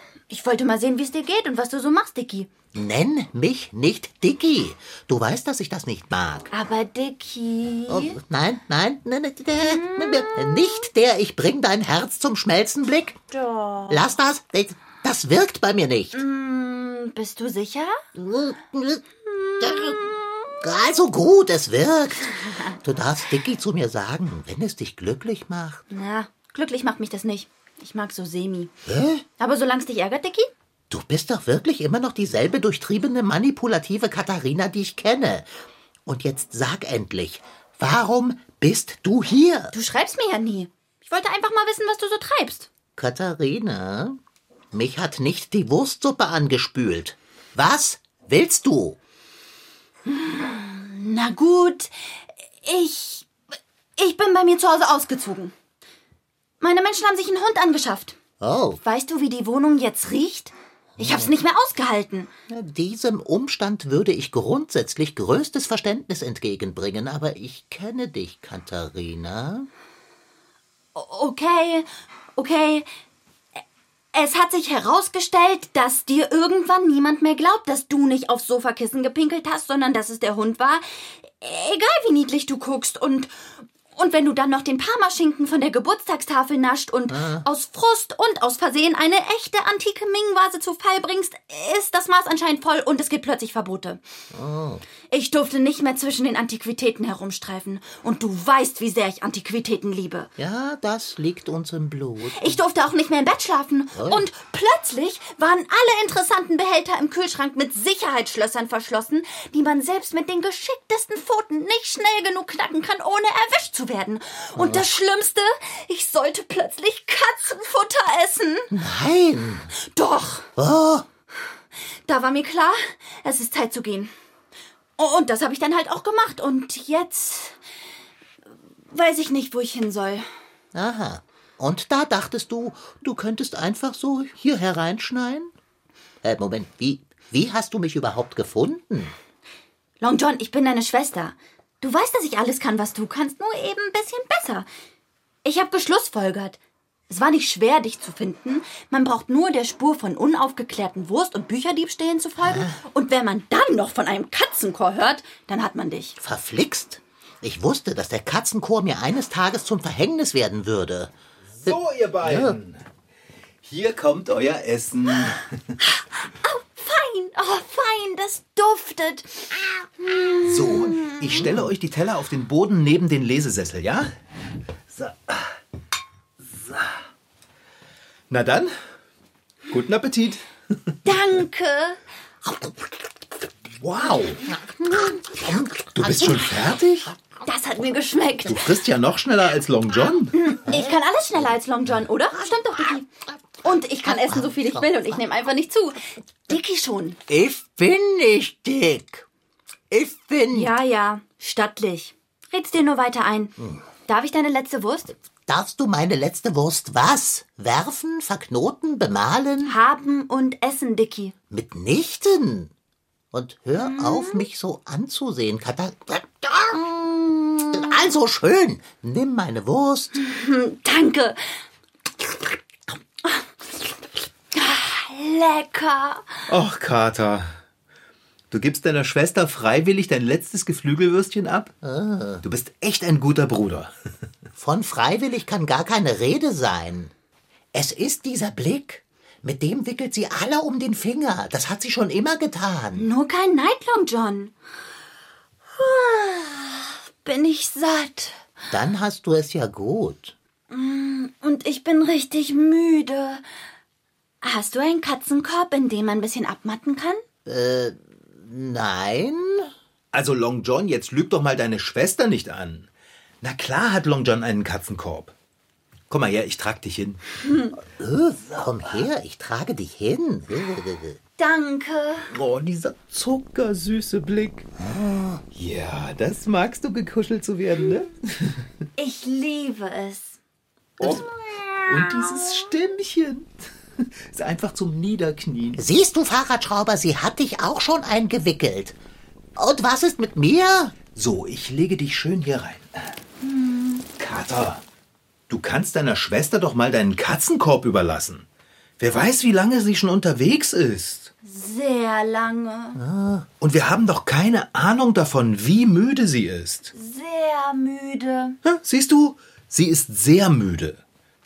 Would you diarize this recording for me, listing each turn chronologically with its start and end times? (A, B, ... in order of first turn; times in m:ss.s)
0:00.3-0:02.5 A
0:02.7-0:06.5 B
0:06.5-0:08.2 A
0:07.9-0:13.2 B
0:09.6-0:10.8 A
0:13.3-0:14.1 A
0:13.9-0:16.2 B
0:16.1-0:18.0 A
0:18.1-0:19.0 B
0:19.3-0:20.6 A
0:19.6-0:25.8 B
0:22.5-0:22.8 A
0:25.9-0:28.7 A
0:28.8-0:29.2 B
0:29.4-0:30.5 A
0:30.9-0:35.5 B
0:36.0-0:39.7 B
0:39.7-0:42.7 A
0:43.0-0:44.2 B
0:44.7-0:49.0 B
0:50.0-0:51.9 A
0:52.6-0:53.3 A
0:54.0-0:55.5 A
0:56.6-0:58.2 A
0:58.4-0:58.8 B
0:58.8-1:02.3 A
1:01.0-1:01.3 B
1:02.5-1:09.7 B
1:10.9-1:12.9 A
1:14.1-1:34.0 A
1:27.1-1:27.4 B
1:34.3-1:34.8 B
1:35.1-1:40.3 A
1:40.4-1:42.6 B
1:42.3-1:58.7 A
1:43.9-1:44.2 B
1:54.6-1:54.9 B
1:58.7-1:59.7 B
1:59.8-2:00.5 A
2:00.6-2:01.1 B
2:02.1-2:04.1 A
2:05.0-2:07.6 A
2:08.9-2:10.2 A
2:10.7-2:15.5 B
2:16.2-2:19.1 B
2:20.0-2:24.7 A
2:25.4-2:26.6 A
2:27.1-2:36.2 A
2:32.4-2:32.8 B
2:36.2-2:42.6 B
2:41.6-2:42.8 C
2:43.6-2:45.5 C
2:45.8-2:51.4 A
2:50.4-2:54.1 C
2:54.9-2:55.5 C
2:56.5-2:56.9 C
2:58.3-2:58.7 C
2:59.7-3:00.4 C
3:01.0-3:02.0 A
3:03.8-3:04.4 C
3:04.4-3:06.8 B
3:05.9-3:07.1 C
3:07.4-3:08.7 A
3:08.4-3:10.3 C
3:10.3-3:13.1 A
3:10.6-3:11.0 B
3:13.6-3:17.2 A
3:14.0-3:15.2 B
3:17.3-3:19.2 B
3:19.9-3:20.7 B
3:20.5-3:25.2 A
3:25.5-3:29.8 B
3:29.6-3:31.3 A
3:31.5-3:32.7 B
3:33.3-3:40.2 B
3:33.8-3:34.5 A
3:37.4-3:37.7 A
3:40.2-3:41.4 A
3:42.9-3:43.5 A
3:44.5-3:46.2 A
3:46.5-3:47.5 C
3:48.5-3:51.7 C
3:51.8-3:52.4 B
3:52.4-3:53.9 C
3:54.6-3:57.1 B
3:57.7-4:03.1 B
4:03.0-4:04.5 A
4:05.7-4:08.4 A
4:08.7-4:10.3 B
4:10.7-4:13.4 A
4:14.4-4:17.2 A
4:17.4-4:19.7 B
4:20.1-4:22.9 C
4:23.4-4:25.3 C
4:26.1-4:27.2 C
4:27.4-4:27.7 A
4:27.8-4:31.2 B
4:31.4-4:32.3 A
4:32.3-4:34.7 C
4:34.8-4:35.4 B
4:35.5-4:38.6 C
4:39.0-4:40.4 A
4:41.0-4:45.8 C
4:45.8-4:49.0 B
4:49.6-4:51.0 B
4:51.1-4:53.1 C
4:53.4-4:54.0 A
4:54.2-4:54.8 C
4:55.5-4:58.4 C
4:59.0-5:01.3 C
5:01.4-5:03.0 A
5:03.0-5:03.5 B
5:03.6-5:06.9 C
5:06.9-5:08.6 A
5:08.6-5:11.0 C